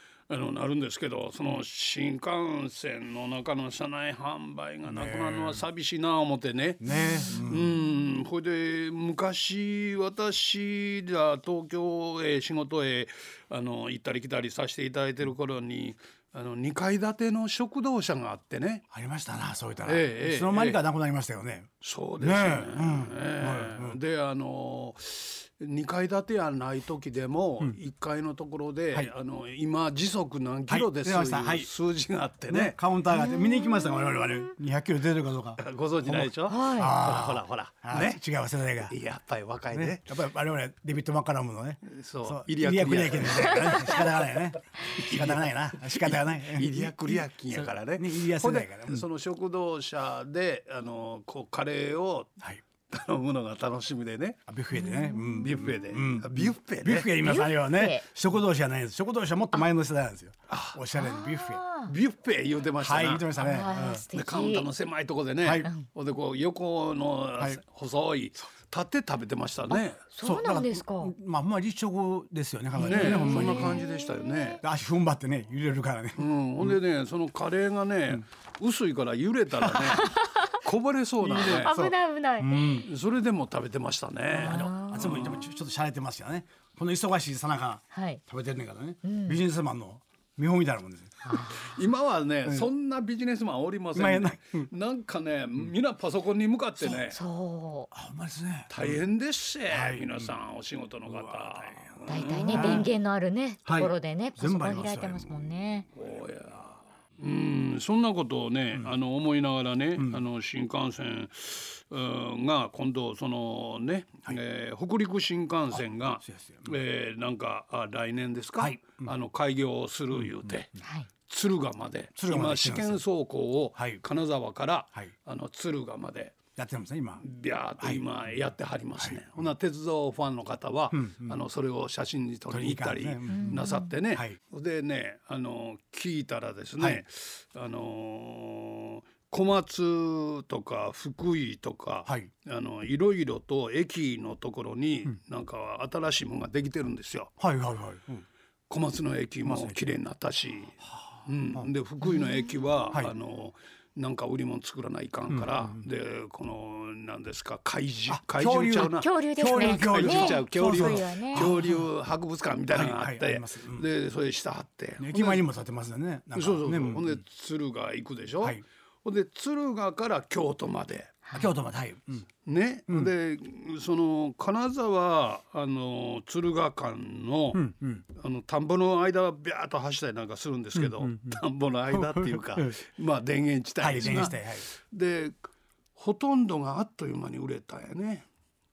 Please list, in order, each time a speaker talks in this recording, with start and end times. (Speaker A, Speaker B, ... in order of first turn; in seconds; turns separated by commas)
Speaker A: 0.3-18.8, Speaker B: 4.8-5.6, Speaker B: 6.8-7.8, Speaker B: 18.9-24.0, Speaker A: 19.8-20.8, Speaker A: 21.8-32.8, Speaker B: 30.7-31.7, Speaker B: 32.5-39.0, Speaker C: 33.1-34.3, Speaker A: 35.6-38.2, Speaker C: 36.5-37.0, Speaker A: 38.8-40.1, Speaker B: 39.7-49.0, Speaker A: 41.8-44.1, Speaker A: 44.9-52.3, Speaker A: 52.9-54.4, Speaker B: 54.5-61.6, Speaker C: 54.7-55.5, Speaker A: 55.4-57.1, Speaker C: 57.2-58.1, Speaker A: 60.5-60.8, Speaker C: 60.9-61.9, Speaker A: 61.9-63.4, Speaker B: 62.8-64.1, Speaker C: 63.4-64.7, Speaker A: 64.1-70.0, Speaker B: 65.4-65.7, Speaker C: 70.0-71.1, Speaker B: 70.2-73.8, Speaker A: 72.8-74.6, Speaker C: 72.8-73.9, Speaker B: 74.6-76.8, Speaker A: 76.2-81.7, Speaker B: 79.6-80.0, Speaker C: 80.0-80.3, Speaker B: 81.2-82.9, Speaker C: 81.3-82.8, Speaker A: 82.8-85.4, Speaker B: 84.3-91.7, Speaker C: 84.3-85.3, Speaker C: 87.9-88.2, Speaker C: 89.0-89.4, Speaker C: 91.2-91.6, Speaker A: 91.5-97.2, Speaker B: 93.9-94.7, Speaker C: 96.8-97.9, Speaker B: 97.9-99.0, Speaker A: 98.7-102.9, Speaker B: 99.7-100.3, Speaker B: 101.0-102.9, Speaker C: 102.1-105.9, Speaker B: 103.7-105.5, Speaker A: 105.9-120.7, Speaker B: 110.0-110.2, Speaker B: 115.7-116.7, Speaker B: 118.6-119.1, Speaker B: 120.1-120.8, Speaker C: 120.8-121.1, Speaker A: 121.3-126.4, Speaker B: 122.2-123.0, Speaker B: 123.8-124.0, Speaker B: 126.5-127.2, Speaker A: 127.2-147.3, Speaker B: 127.8-128.3, Speaker B: 129.0-129.5, Speaker B: 130.9-131.4, Speaker B: 132.5-134.4, Speaker C: 133.3-133.9, Speaker B: 147.4-148.2, Speaker A: 148.7-165.5, Speaker B: 149.4-149.8, Speaker B: 150.8-151.7, Speaker B: 155.3-155.8, Speaker B: 158.1-161.9, Speaker C: 158.8-161.5, Speaker B: 162.7-163.9, Speaker B: 165.0-167.2, Speaker A: 166.3-171.1, Speaker C: 171.2-171.5, Speaker B: 171.3-172.3, Speaker A: 172.4-185.4, Speaker B: 177.5-178.0, Speaker B: 180.7-182.8, Speaker B: 183.8-184.7, Speaker A: 185.9-188.3